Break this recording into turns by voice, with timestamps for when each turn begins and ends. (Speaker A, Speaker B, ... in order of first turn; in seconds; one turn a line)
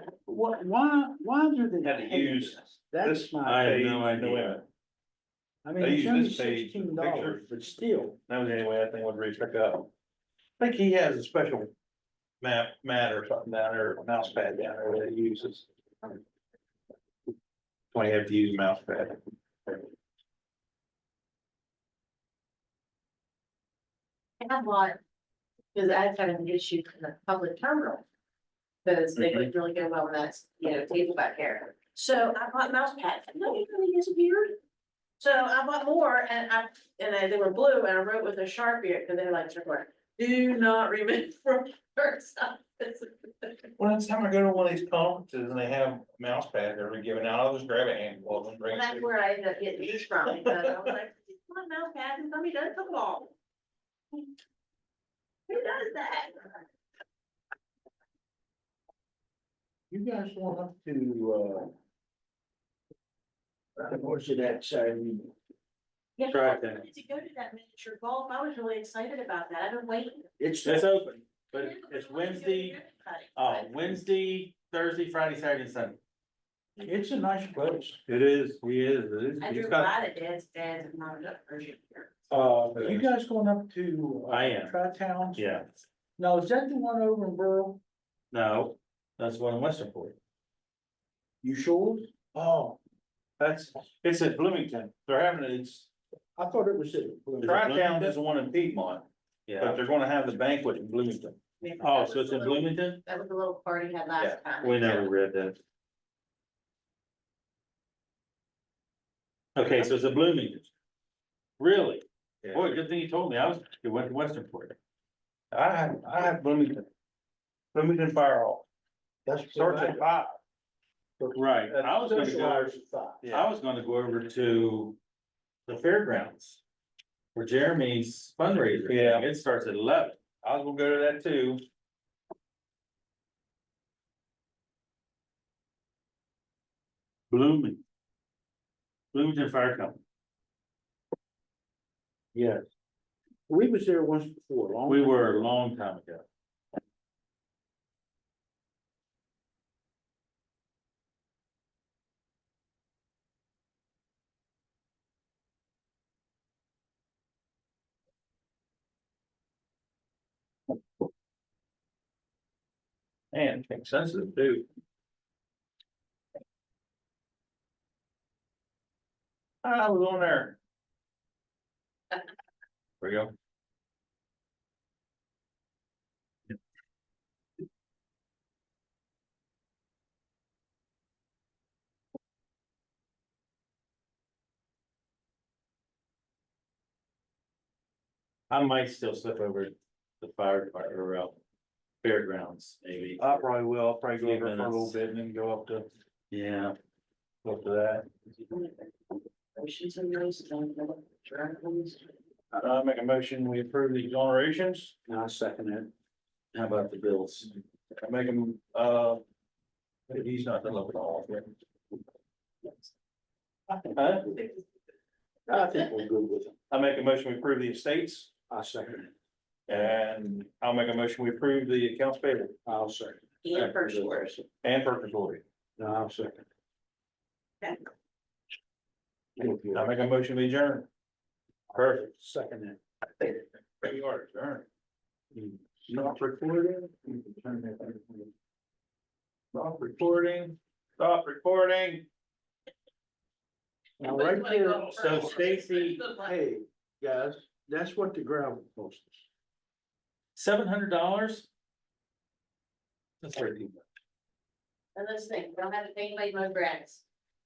Speaker A: 0.2-4.0
Speaker B: 1.8-4.7
Speaker C: 3.4-4.6
Speaker A: 5.6-8.2
Speaker B: 5.8-7.5
Speaker B: 8.3-9.9
Speaker B: 10.6-11.7
Speaker B: 12.4-16.2
Speaker B: 17.9-19.9
Speaker D: 24.4-25.0
Speaker D: 25.7-28.0
Speaker D: 28.8-34.5
Speaker D: 35.2-43.5
Speaker B: 43.8-49.1
Speaker D: 48.7-53.3
Speaker D: 55.5-56.6
Speaker A: 59.9-61.7
Speaker A: 63.8-65.3
Speaker D: 66.2-70.3
Speaker C: 66.3-66.8
Speaker A: 70.4-70.9
Speaker C: 70.6-72.8
Speaker D: 71.6-73.7
Speaker C: 73.3-76.0
Speaker A: 76.8-78.0
Speaker B: 78.1-79.9
Speaker D: 79.4-82.1
Speaker A: 82.3-85.6
Speaker B: 82.7-83.1
Speaker C: 84.3-84.8
Speaker C: 85.3-85.7
Speaker A: 86.2-87.8
Speaker C: 88.3-90.2
Speaker A: 91.4-92.8
Speaker B: 93.4-95.9
Speaker A: 96.3-98.2
Speaker B: 97.4-99.0
Speaker C: 99.5-99.8
Speaker B: 99.6-101.4
Speaker D: 101.6-105.1
Speaker C: 101.8-103.0
Speaker C: 104.6-105.6
Speaker C: 109.5-110.7
Speaker C: 111.6-114.8
Speaker B: 112.4-112.8
Speaker B: 115.5-116.8
Speaker B: 117.7-118.7
Speaker A: 119.2-120.0
Speaker B: 119.5-120.4
Speaker A: 121.2-123.3
Speaker C: 121.3-122.8
Speaker B: 123.2-123.5
Speaker C: 123.3-125.0
Speaker C: 125.7-126.6
Speaker C: 127.3-130.2
Speaker B: 128.8-129.3
Speaker B: 130.4-131.6
Speaker C: 137.3-137.8
Speaker C: 139.1-140.0
Speaker A: 142.3-142.6
Speaker A: 143.5-145.4
Speaker C: 144.9-146.2
Speaker B: 163.3-164.6
Speaker B: 169.6-170.6
Speaker B: 173.0-173.3
Speaker C: 188.5-191.4
Speaker C: 192.0-193.4
Speaker B: 193.2-195.9
Speaker C: 194.2-194.9
Speaker C: 196.3-196.8
Speaker B: 197.4-198.1
Speaker D: 198.5-198.8
Speaker D: 199.6-202.0
Speaker B: 202.5-204.9
Speaker A: 205.1-205.9
Speaker C: 206.5-207.5
Speaker B: 208.0-209.2
Speaker B: 210.1-211.5
Speaker A: 213.7-214.2
Speaker B: 213.9-214.3
Speaker A: 215.5-216.6
Speaker B: 216.7-218.3
Speaker A: 218.5-219.1
Speaker B: 219.7-222.5
Speaker A: 222.6-224.3
Speaker D: 223.4-224.4
Speaker B: 224.6-225.4
Speaker A: 225.8-226.4
Speaker A: 229.4-229.9
Speaker B: 229.7-230.9
Speaker A: 231.7-232.8
Speaker B: 233.2-234.7
Speaker A: 235.3-235.6
Speaker B: 235.9-238.3
Speaker B: 239.5-242.1
Speaker A: 244.0-245.5
Speaker D: 244.1-246.3
Speaker C: 244.9-246.0
Speaker A: 246.1-249.2
Speaker C: 250.3-251.5
Speaker C: 253.2-253.8
Speaker D: 254.9-257.0